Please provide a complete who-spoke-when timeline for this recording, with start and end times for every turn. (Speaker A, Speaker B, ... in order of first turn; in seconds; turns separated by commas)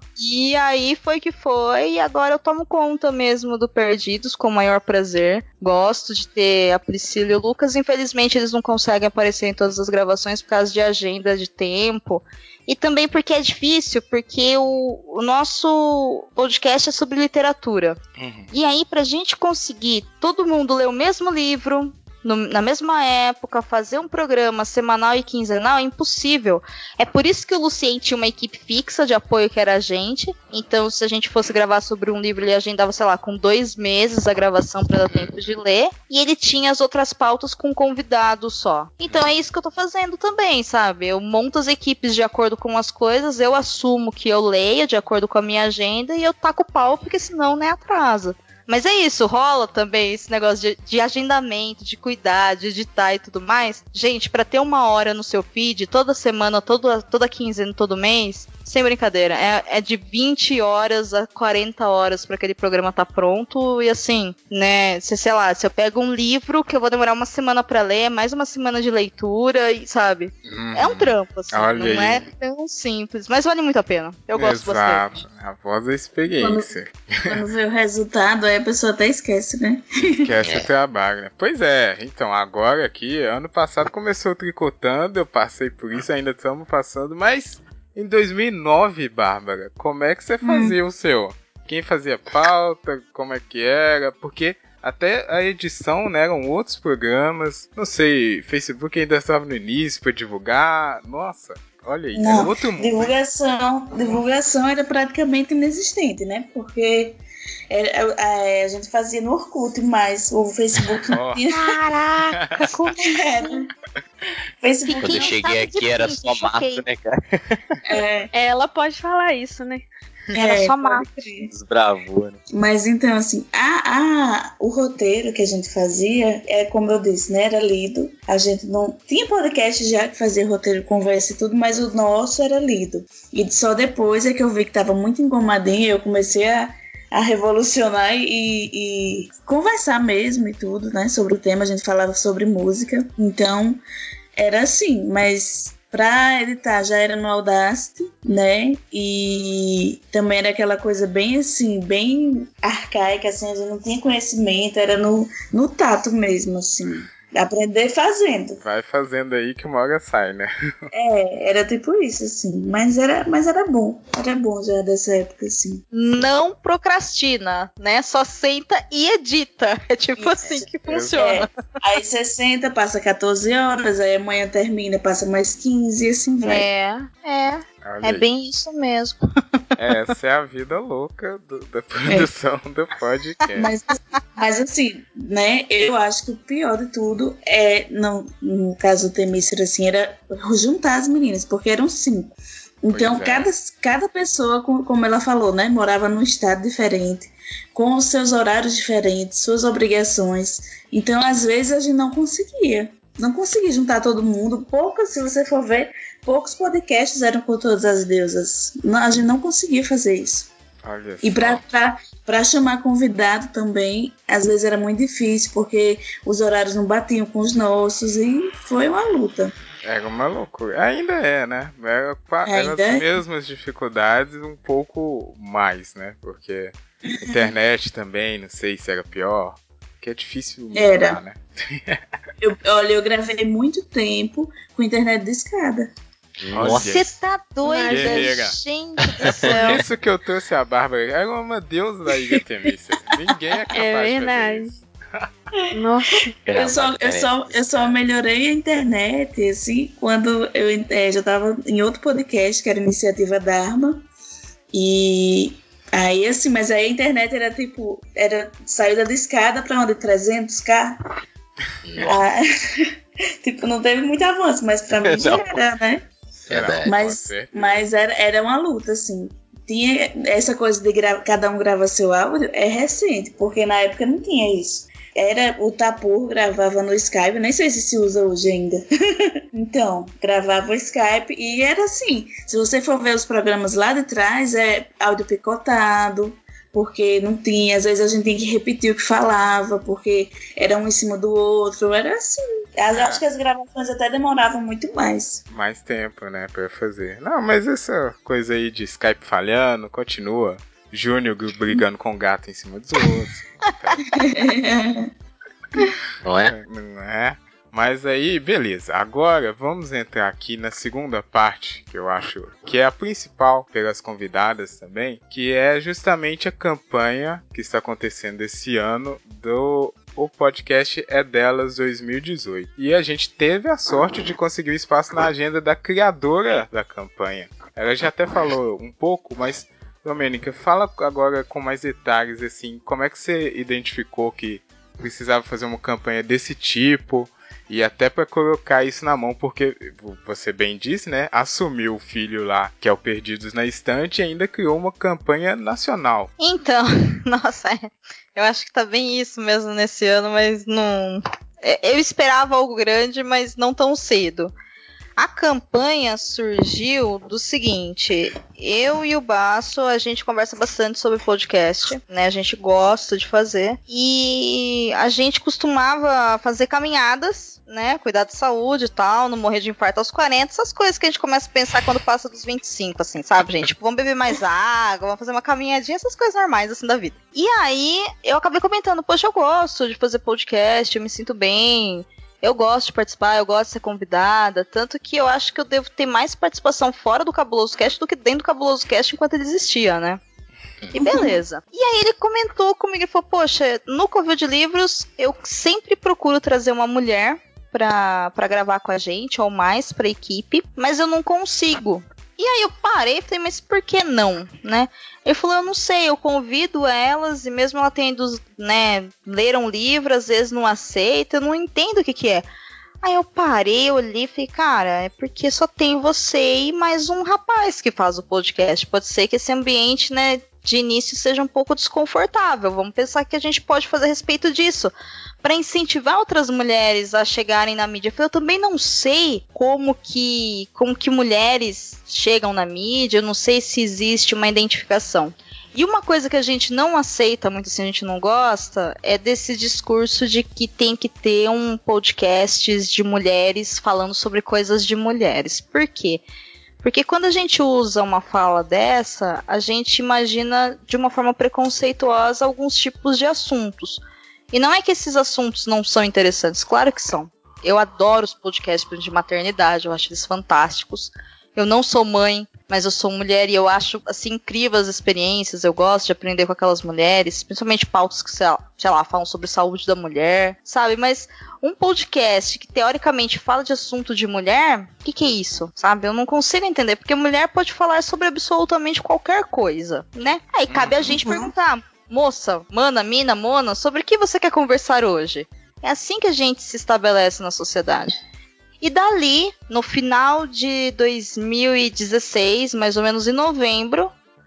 Speaker A: 0.2-18.0, Speaker B: 18.2-18.5, Speaker A: 18.5-75.1, Speaker B: 39.1-39.4, Speaker B: 70.5-72.3, Speaker B: 74.3-77.4, Speaker C: 76.4-76.7, Speaker C: 77.3-80.4, Speaker B: 80.2-103.1, Speaker D: 80.4-80.7, Speaker C: 90.4-90.8, Speaker C: 102.1-107.2, Speaker C: 107.7-111.7, Speaker B: 111.1-111.4, Speaker A: 111.5-113.5, Speaker B: 112.3-112.9, Speaker C: 113.0-113.7, Speaker C: 114.6-115.4, Speaker A: 114.8-116.8, Speaker D: 115.0-117.6, Speaker C: 117.8-118.3, Speaker E: 118.3-119.8, Speaker C: 120.3-121.5, Speaker A: 120.4-121.1, Speaker D: 121.5-122.4, Speaker C: 122.5-143.8, Speaker C: 144.4-158.6, Speaker B: 158.6-160.9, Speaker C: 160.9-165.8, Speaker A: 165.9-171.5, Speaker C: 170.2-176.7, Speaker B: 170.8-171.2, Speaker A: 176.4-179.6, Speaker B: 177.8-178.3, Speaker B: 179.8-183.7, Speaker C: 183.6-210.5, Speaker B: 192.9-193.5, Speaker B: 210.8-211.6, Speaker C: 211.2-219.5, Speaker B: 219.8-232.0, Speaker C: 222.4-223.2, Speaker C: 227.1-227.6, Speaker C: 230.7-231.2, Speaker C: 232.4-235.9, Speaker D: 236.4-236.9, Speaker B: 236.5-237.2, Speaker A: 236.7-239.8, Speaker E: 237.6-238.3, Speaker B: 237.8-238.6, Speaker C: 239.4-239.8, Speaker B: 239.5-245.3, Speaker E: 243.7-244.7, Speaker E: 245.7-246.3, Speaker D: 246.4-248.0, Speaker C: 246.5-254.1, Speaker C: 254.7-261.0, Speaker D: 261.9-262.2, Speaker C: 262.0-262.9, Speaker C: 263.4-266.1, Speaker D: 265.0-265.6, Speaker D: 266.5-266.9, Speaker B: 266.5-267.9, Speaker C: 266.8-278.8, Speaker C: 279.5-295.4, Speaker B: 292.9-293.2, Speaker B: 295.5-304.1, Speaker C: 304.1-305.1, Speaker D: 306.2-306.5, Speaker B: 306.5-346.3, Speaker A: 346.4-354.5, Speaker A: 355.2-390.2, Speaker A: 390.9-412.5, Speaker C: 391.0-391.4, Speaker A: 413.0-446.2, Speaker A: 446.8-488.1, Speaker B: 480.7-481.2, Speaker A: 488.8-494.1